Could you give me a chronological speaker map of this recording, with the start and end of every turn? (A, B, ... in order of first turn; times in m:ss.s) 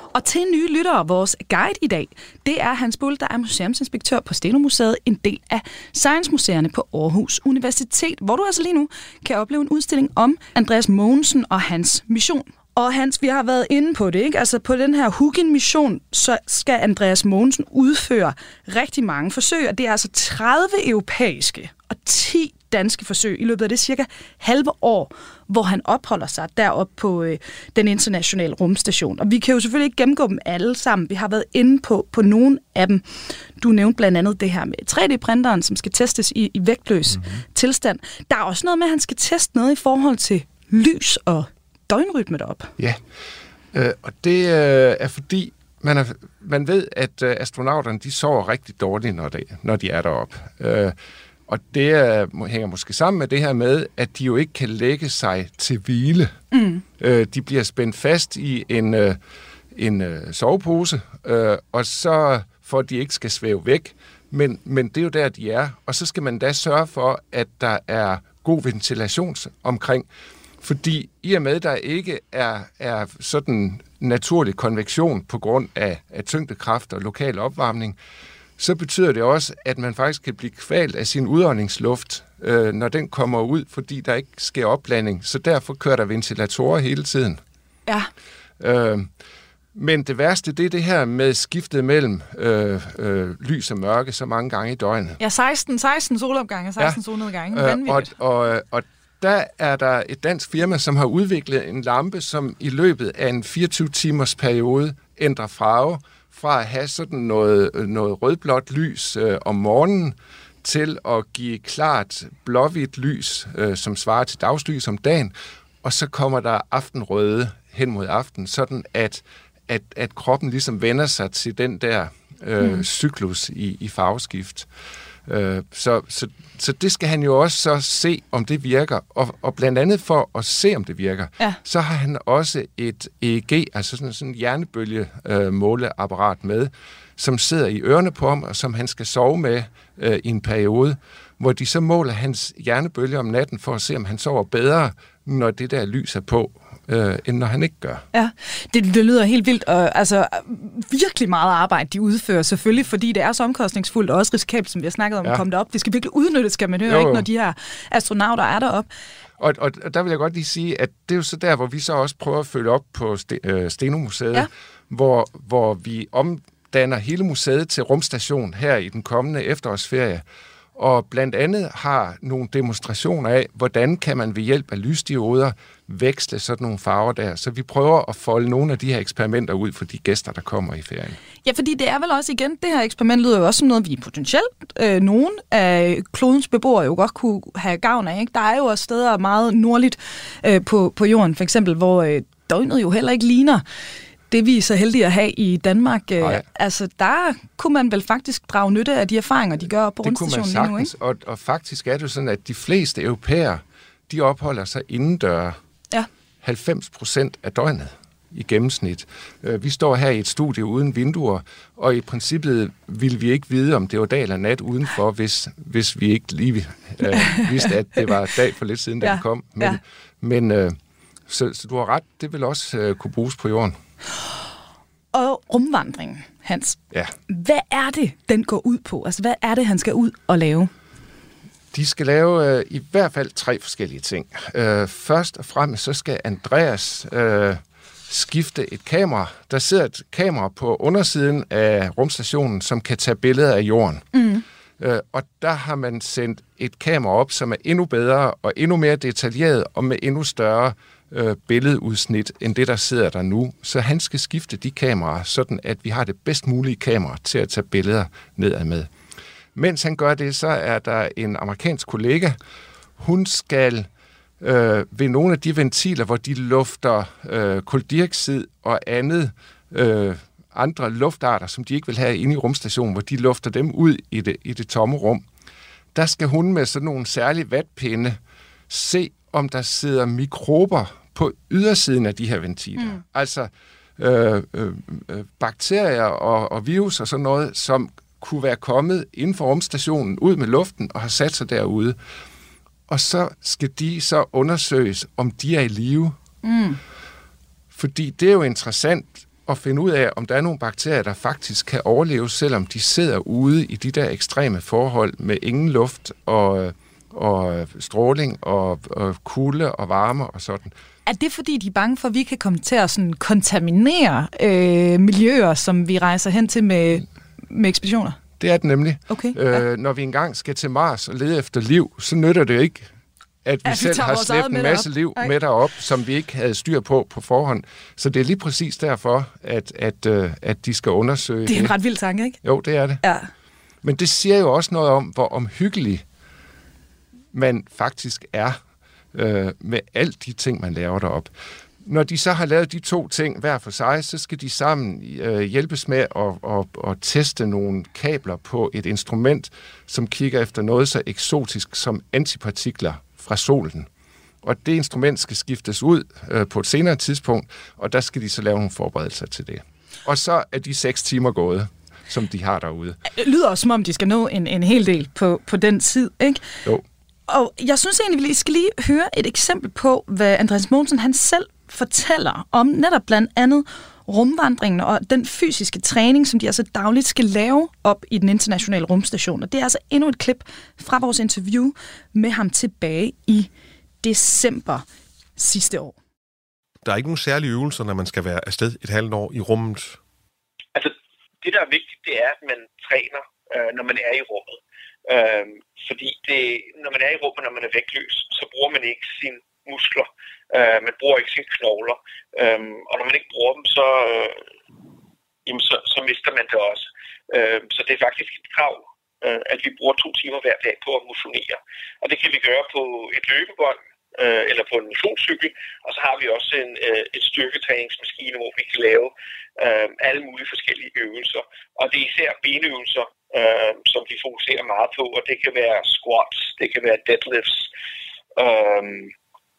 0:00.1-0:33.0 A
0:33.6-0:42.7 A
0:43.7-0:51.0 B
0:51.5-0:56.3 B
0:56.5-0:56.8 A
0:57.0-0:59.2 B
0:59.7-1:10.1 B
1:10.6-1:18.0 B
1:18.6-1:27.4 B
1:28.6-1:29.1 B
1:29.7-1:35.2 B
1:35.2-1:38.1 A
1:36.8-2:04.7 B
2:05.2-2:28.0 B
2:28.1-2:38.9 A
2:36.8-2:37.3 B
2:39.4-3:01.2 B
3:01.4-3:13.6 A
3:14.3-3:20.9 A
3:20.0-3:25.6 B
3:26.4-3:40.8 B
3:37.1-3:37.7 A
3:39.0-3:39.8 A
3:41.3-3:43.8 B
3:45.1-3:46.8 A
3:47.3-3:50.7 A
3:51.7-4:04.1 B
4:04.1-4:04.4 A
4:04.8-4:18.9 B
4:19.5-4:22.4 B
4:23.0-4:23.9 B
4:24.4-4:35.2 B
4:35.9-4:38.2 B
4:38.7-4:52.0 B
4:52.9-4:56.2 B
4:56.4-4:56.8 A
4:57.7-5:10.7 B
5:11.0-5:18.2 A
5:18.4-5:22.9 B
5:19.1-5:19.6 A
5:23.4-5:31.8 B
5:23.6-5:25.3 A
5:31.5-5:32.4 A
5:32.4-5:33.0 B
5:33.0-5:33.3 A
5:33.8-5:36.0 B
5:37.3-5:38.6 B
5:39.1-5:41.3 B
5:41.8-5:53.9 B
5:54.4-6:03.0 B
6:03.1-6:06.4 A
6:07.3-6:23.5 A
6:24.0-6:24.8 A
6:25.4-6:26.0 A
6:26.8-6:30.0 C
6:30.7-6:44.4 D
6:45.4-7:07.7 D
7:08.4-7:09.1 D